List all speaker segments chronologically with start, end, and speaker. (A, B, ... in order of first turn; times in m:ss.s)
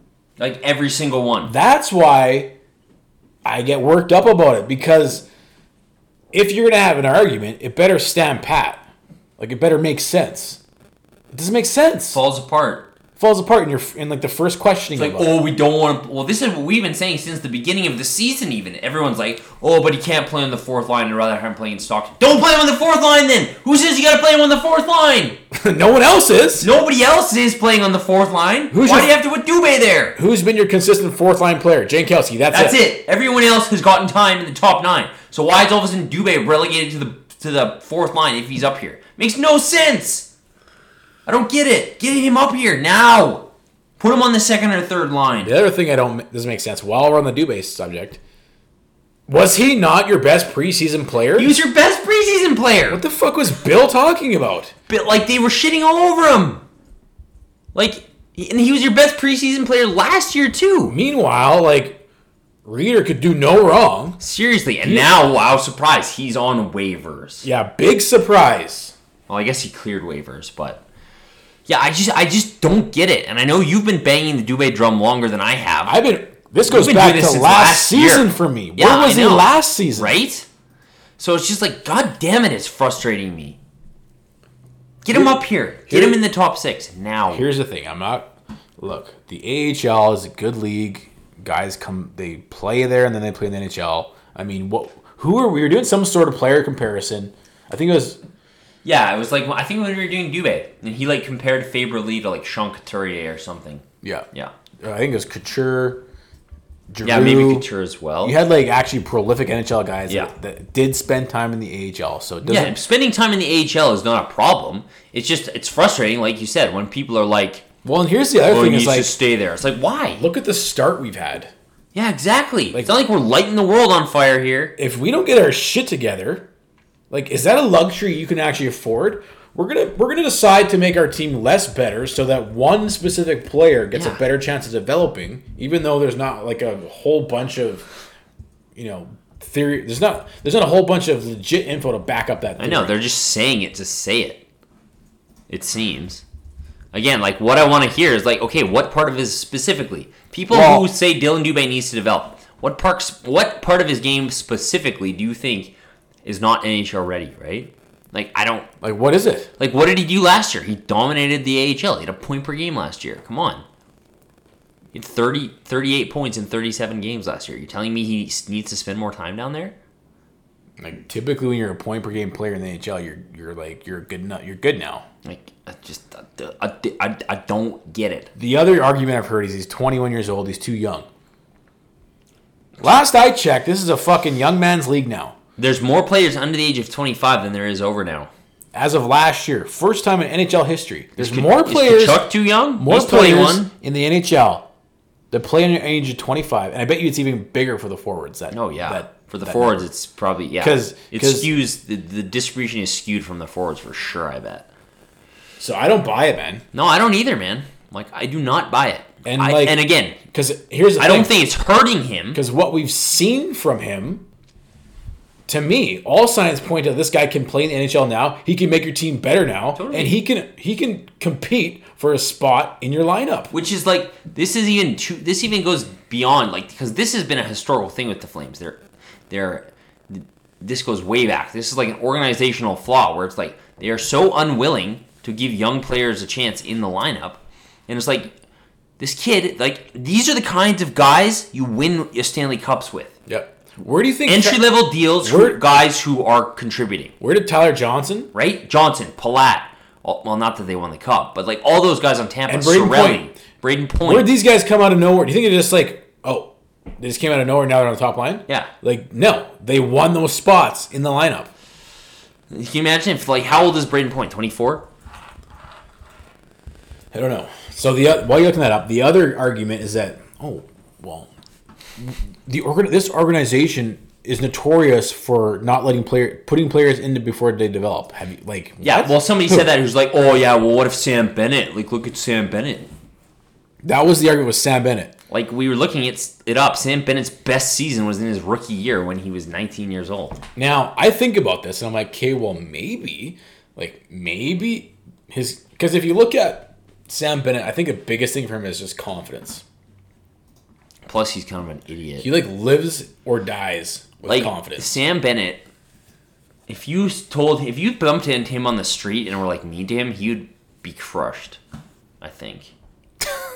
0:00.4-0:01.5 A
0:01.4-0:02.5 B
0:03.4-0:05.2 B
0:06.3-0:08.8 B
0:09.4-0:10.6 B
0:11.3-0:12.2 B
0:12.1-0:12.9 A
0:13.2-0:15.3 B
0:14.9-0:25.4 A
0:25.5-0:26.7 B
0:26.6-0:30.2 A
0:28.7-0:29.2 B
0:30.2-0:32.8 B
0:32.5-0:40.3 A
0:41.2-0:43.5 A
0:44.0-0:45.5 A
0:45.4-0:48.2 B
0:49.3-0:51.6 B
0:51.4-0:53.0 A
0:52.9-0:54.7 B
0:54.9-0:56.6 A
0:57.7-1:00.9 A
1:00.9-1:02.0 B
1:02.6-1:04.2 B
1:04.2-1:07.4 A
1:04.8-1:05.1 B
1:07.4-1:08.9 B
1:09.3-1:10.8 A
1:11.7-1:16.0 A
1:15.8-1:20.2 B
1:16.6-1:20.5 A
1:21.2-1:23.6 A
1:25.0-1:27.4 A
1:25.1-1:26.2 B
1:27.3-1:38.2 B
1:38.8-1:44.5 A
1:44.0-1:44.3 B
1:44.8-1:46.0 B
1:46.9-1:47.7 B
1:47.0-1:48.4 A
1:48.2-1:52.8 B
1:52.4-1:57.6 A
1:57.8-1:59.1 B
1:58.5-2:00.2 A
2:00.2-2:01.5 B
2:01.9-2:04.7 A
2:04.8-2:06.5 B
2:07.1-2:17.9 B
2:13.9-2:14.2 A
2:18.7-2:23.0 B
2:22.6-2:24.4 A
2:25.5-2:26.2 A
2:26.9-2:35.7 A
2:30.5-2:30.9 B
2:36.2-2:38.7 A
2:38.8-2:39.5 B
2:39.6-2:43.6 A
2:44.9-2:49.7 A
2:50.8-2:55.0 B
2:55.2-2:58.3 A
2:58.4-3:01.1 B
3:02.8-3:05.4 B
3:05.6-3:08.3 A
3:08.7-3:14.7 B
3:11.2-3:13.7 A
3:15.3-3:19.8 B
3:18.5-3:24.7 A
3:20.6-3:21.5 B
3:25.6-3:26.6 B
3:26.7-3:30.2 A
3:29.2-3:31.3 B
3:31.0-3:32.4 A
3:32.3-3:34.2 B
3:35.5-3:43.5 B
3:39.7-3:40.1 A
3:43.5-3:58.3 A
3:59.0-4:03.2 A
4:03.3-4:04.6 B
4:04.2-4:07.1 A
4:05.2-4:05.6 B
4:07.2-4:08.3 B
4:08.3-4:14.3 A
4:12.5-4:13.3 B
4:14.0-4:21.5 B
4:22.5-4:24.8 A
4:27.1-4:31.3 B
4:32.0-4:39.7 B
4:38.8-4:42.9 A
4:43.8-4:45.1 B
4:45.3-4:50.4 A
4:50.6-4:59.6 B
5:01.0-5:02.3 A
5:02.2-5:04.9 B
5:04.2-5:05.6 A
5:06.7-5:11.6 A
5:12.2-5:12.7 A